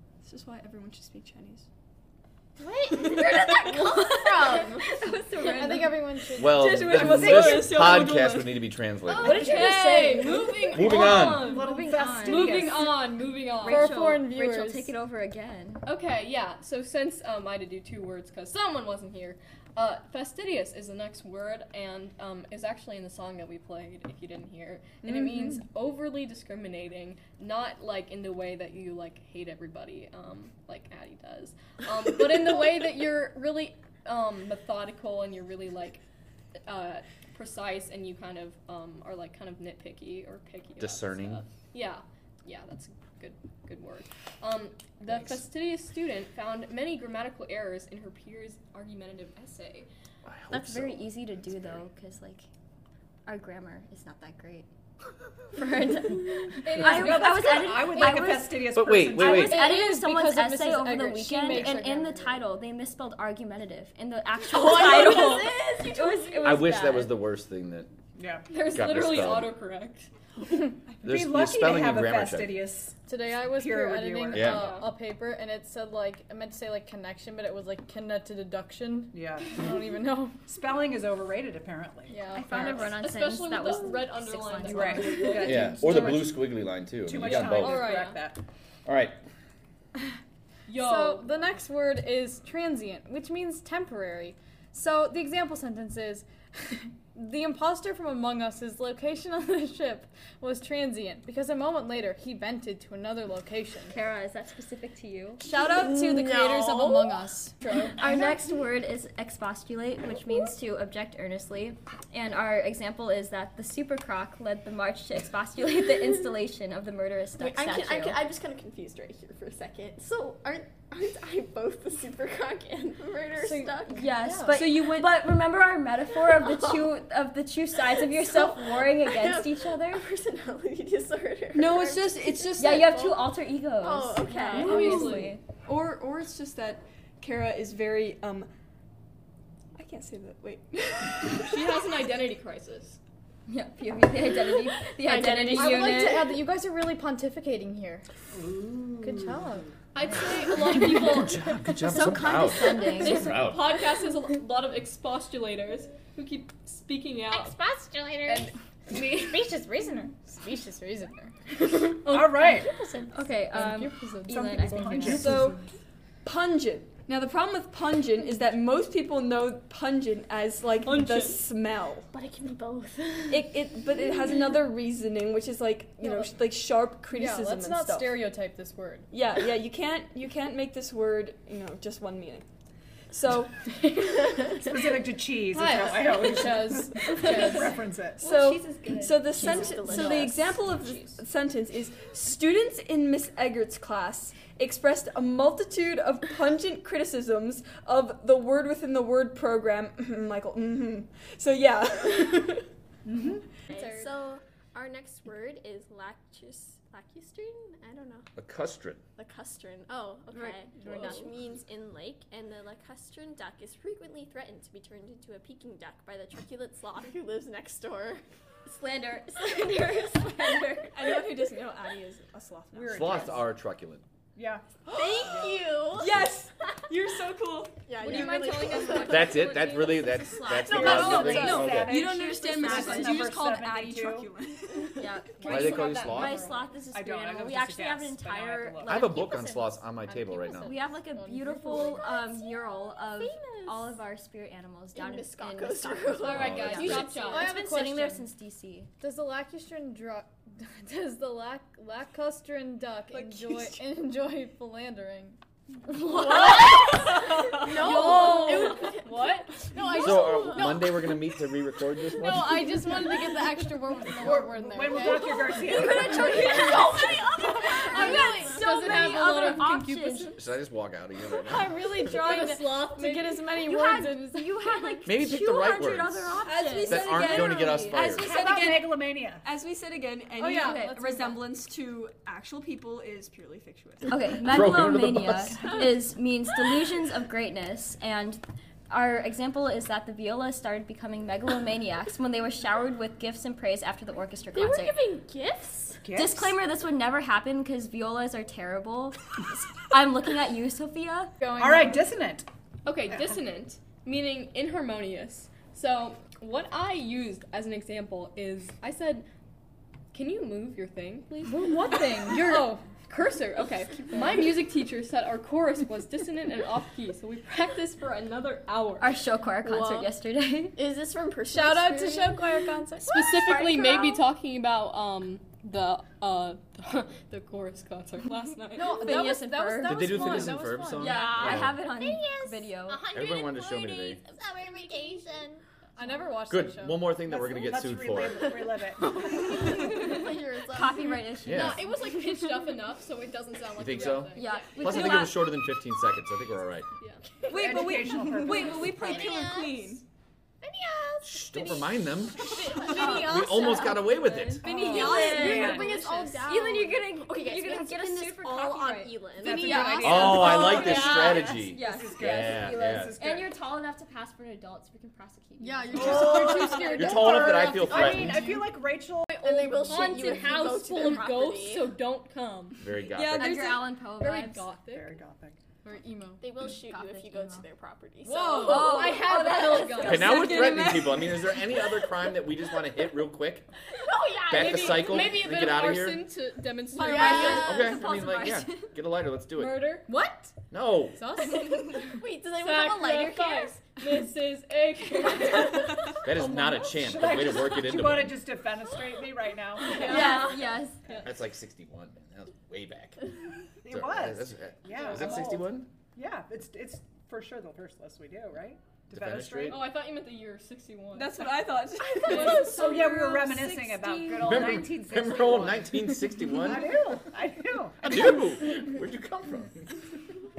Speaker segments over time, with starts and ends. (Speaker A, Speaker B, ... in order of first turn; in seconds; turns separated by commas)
Speaker A: 0.2-1.7, Speaker B: 2.6-5.0, Speaker A: 3.0-8.7, Speaker C: 4.5-6.0, Speaker D: 5.4-7.2, Speaker E: 6.3-9.6, Speaker F: 9.1-14.0, Speaker D: 9.2-10.4, Speaker A: 9.6-10.1, Speaker C: 9.9-10.8, Speaker E: 10.7-11.5, Speaker G: 10.8-12.9, Speaker C: 11.3-12.5, Speaker D: 12.5-12.9, Speaker C: 13.1-15.8, Speaker D: 13.6-14.9, Speaker F: 15.8-36.0, Speaker F: 36.7-49.9, Speaker E: 40.8-41.4, Speaker E: 50.2-51.1, Speaker C: 50.5-52.5, Speaker C: 53.3-54.7, Speaker C: 55.5-67.2, Speaker D: 56.6-58.3, Speaker G: 56.7-59.6, Speaker E: 58.7-59.6, Speaker D: 59.2-62.4, Speaker B: 64.5-66.6, Speaker E: 66.4-67.9, Speaker G: 68.2-68.5, Speaker F: 68.5-70.1, Speaker E: 68.7-69.5, Speaker G: 71.0-74.5, Speaker E: 71.0-72.5, Speaker D: 73.0-80.4, Speaker E: 74.3-74.7, Speaker F: 74.3-74.9, Speaker G: 79.1-79.7, Speaker G: 80.5-82.1, Speaker D: 82.1-82.8, Speaker C: 82.2-85.7, Speaker F: 82.5-85.7, Speaker G: 84.6-86.4, Speaker E: 85.4-87.9, Speaker G: 87.0-88.4, Speaker F: 87.2-88.2, Speaker E: 88.8-89.2, Speaker F: 90.7-91.3, Speaker D: 90.7-103.9, Speaker C: 103.9-105.5, Speaker D: 105.4-108.0, Speaker A: 105.5-106.8, Speaker B: 105.8-107.2, Speaker C: 108.0-118.3, Speaker B: 117.4-124.0, Speaker D: 123.4-124.6, Speaker C: 123.8-130.0, Speaker A: 124.5-125.3, Speaker B: 126.1-126.9, Speaker B: 127.7-135.1, Speaker A: 131.5-132.8, Speaker C: 132.5-135.4, Speaker F: 134.5-135.3, Speaker A: 134.9-138.5, Speaker A: 139.8-141.5, Speaker F: 141.4-143.0, Speaker C: 143.5-146.3, Speaker B: 145.0-146.1, Speaker D: 145.5-148.0, Speaker G: 148.3-149.6, Speaker D: 149.0-149.7, Speaker F: 149.9-151.4, Speaker E: 150.7-153.6, Speaker C: 151.8-153.4, Speaker F: 153.0-157.5, Speaker B: 157.3-158.5, Speaker D: 158.3-161.3, Speaker F: 161.7-162.4, Speaker G: 162.1-162.7, Speaker C: 162.3-165.2, Speaker A: 163.2-163.8, Speaker D: 163.4-165.6, Speaker G: 164.3-165.4, Speaker A: 165.0-165.6, Speaker A: 166.2-172.1, Speaker F: 170.8-171.4, Speaker B: 172.1-173.5, Speaker A: 173.3-178.2, Speaker B: 174.2-174.6, Speaker D: 177.1-178.9, Speaker F: 178.8-179.0, Speaker A: 179.1-182.4, Speaker A: 183.1-183.7, Speaker G: 184.6-188.3, Speaker F: 185.5-186.3, Speaker D: 186.2-187.7, Speaker A: 187.2-187.6, Speaker A: 188.2-202.7, Speaker C: 188.3-189.8, Speaker B: 189.4-190.4, Speaker G: 203.1-203.4, Speaker B: 203.7-208.3, Speaker E: 208.4-209.0, Speaker B: 209.2-218.2, Speaker C: 210.3-211.2, Speaker A: 210.8-211.1, Speaker C: 218.7-221.2, Speaker A: 220.9-223.4, Speaker G: 222.7-223.4, Speaker E: 222.9-224.0, Speaker G: 224.3-225.5, Speaker A: 224.9-229.1, Speaker B: 224.9-226.2, Speaker B: 227.8-229.9, Speaker D: 228.0-229.2, Speaker F: 228.0-229.8, Speaker E: 229.1-232.0, Speaker C: 230.0-233.3, Speaker B: 230.7-231.1, Speaker G: 230.8-234.3, Speaker A: 230.8-235.1, Speaker C: 234.9-239.2, Speaker D: 235.3-236.6, Speaker E: 235.5-236.4, Speaker G: 236.4-239.0, Speaker E: 238.8-240.8, Speaker D: 238.9-242.1, Speaker C: 240.5-248.9, Speaker B: 241.6-244.1, Speaker B: 244.9-247.6, Speaker F: 246.2-247.6, Speaker E: 246.3-247.0, Speaker D: 247.3-248.3, Speaker D: 249.0-255.4, Speaker A: 253.1-253.8, Speaker D: 255.9-256.3, Speaker C: 256.0-257.0, Speaker B: 256.2-261.5, Speaker A: 256.7-257.7, Speaker F: 257.7-259.6, Speaker D: 257.9-259.5, Speaker E: 259.9-262.9, Speaker B: 262.1-264.4, Speaker D: 262.1-270.4, Speaker F: 262.9-263.3, Speaker G: 264.2-266.4, Speaker B: 265.0-269.0, Speaker A: 266.2-267.1, Speaker C: 266.4-266.9, Speaker C: 267.8-270.4, Speaker E: 270.4-271.8, Speaker C: 271.6-272.6, Speaker D: 271.8-275.0, Speaker A: 271.8-272.5, Speaker F: 272.1-273.4, Speaker C: 273.4-277.2, Speaker E: 275.0-278.4, Speaker A: 276.4-284.2, Speaker G: 278.0-279.5, Speaker D: 280.4-281.5, Speaker C: 284.1-295.0, Speaker E: 284.4-285.6, Speaker B: 285.6-286.0, Speaker B: 294.5-296.0, Speaker G: 296.0-296.6, Speaker C: 296.1-301.5, Speaker D: 301.4-302.1, Speaker G: 301.6-302.5, Speaker F: 302.9-309.2, Speaker F: 310.1-319.1, Speaker D: 311.4-312.8, Speaker C: 319.0-320.8, Speaker B: 319.6-320.2, Speaker B: 320.7-323.1, Speaker D: 321.5-324.0, Speaker F: 323.1-329.4, Speaker C: 328.8-330.1, Speaker D: 328.8-331.5, Speaker E: 329.8-331.8, Speaker F: 330.1-330.5, Speaker C: 330.9-333.1, Speaker B: 331.2-335.6, Speaker E: 333.1-334.2, Speaker D: 334.9-335.2, Speaker D: 336.0-337.2, Speaker E: 336.5-338.4, Speaker G: 337.2-339.4, Speaker B: 339.3-341.3, Speaker C: 339.4-342.7, Speaker E: 341.4-341.9, Speaker F: 341.4-344.5, Speaker E: 343.8-346.9, Speaker C: 344.2-345.5, Speaker F: 347.0-347.8, Speaker A: 347.5-350.0, Speaker G: 347.5-349.5, Speaker B: 348.8-350.0, Speaker B: 350.6-353.2, Speaker E: 351.2-352.4, Speaker F: 352.6-353.7, Speaker C: 352.7-355.6, Speaker E: 353.2-354.7, Speaker G: 354.6-356.3, Speaker B: 354.8-361.5, Speaker A: 354.8-356.1, Speaker C: 356.4-366.5, Speaker G: 359.4-363.6, Speaker F: 359.4-359.9, Speaker E: 360.0-363.2, Speaker B: 365.6-367.0, Speaker D: 365.7-368.6, Speaker F: 365.9-367.4, Speaker G: 366.0-366.4, Speaker E: 366.8-368.4, Speaker G: 367.0-369.5, Speaker B: 367.7-368.2, Speaker B: 369.4-371.9, Speaker F: 369.5-375.1, Speaker E: 372.8-373.5, Speaker A: 373.0-373.6, Speaker C: 373.4-374.8, Speaker G: 374.9-375.6, Speaker D: 375.8-376.4, Speaker B: 376.4-380.1, Speaker C: 376.5-377.7, Speaker F: 378.2-381.1, Speaker A: 378.6-381.6, Speaker C: 379.6-380.9, Speaker E: 380.0-383.7, Speaker B: 383.9-385.5, Speaker E: 384.5-386.2, Speaker F: 384.5-387.8, Speaker C: 386.9-388.9, Speaker B: 387.0-388.0, Speaker E: 387.5-389.9, Speaker F: 389.6-390.1, Speaker D: 390.1-390.5, Speaker E: 390.7-391.3, Speaker D: 391.1-392.2, Speaker B: 391.5-393.8, Speaker F: 392.5-396.2, Speaker E: 396.2-398.4, Speaker G: 396.7-400.4, Speaker C: 399.8-401.2, Speaker F: 399.9-401.3, Speaker D: 399.9-400.3, Speaker E: 401.2-403.2, Speaker G: 403.8-409.8, Speaker E: 403.9-405.9, Speaker E: 409.1-409.9, Speaker F: 409.7-413.1, Speaker A: 411.1-414.9, Speaker G: 412.6-418.6, Speaker E: 414.4-417.0, Speaker E: 418.0-419.9